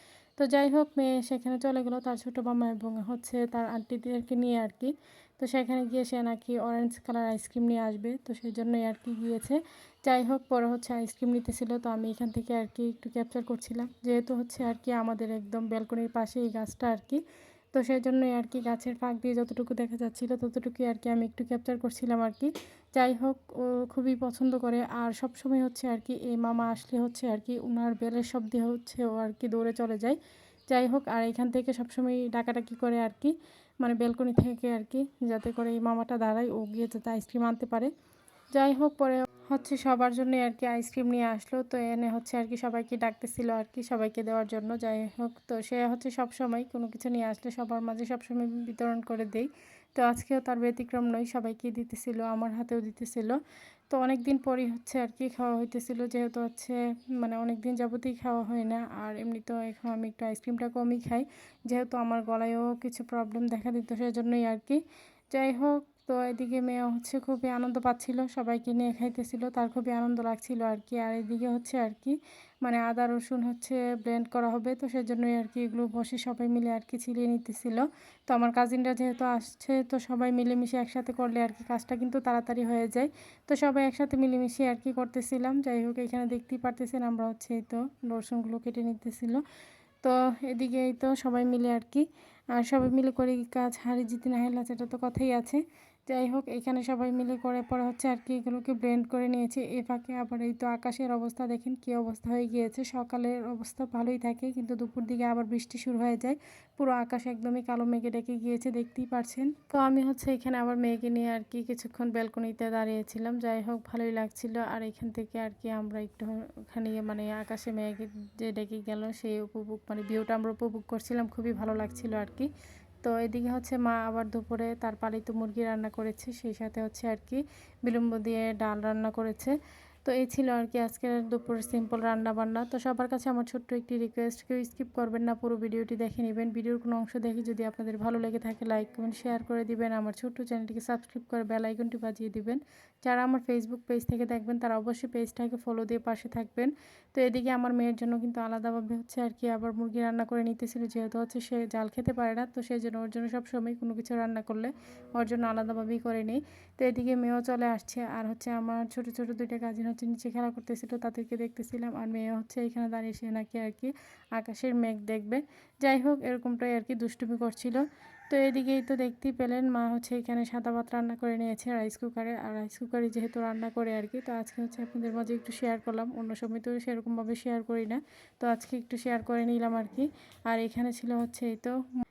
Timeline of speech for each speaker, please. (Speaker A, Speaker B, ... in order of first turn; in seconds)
Speaker A: 0.4-17.2, 17.7-30.2, 30.7-37.9, 38.5-53.4, 53.9-64.8, 65.3-89.4, 90.0-122.5, 123.0-181.8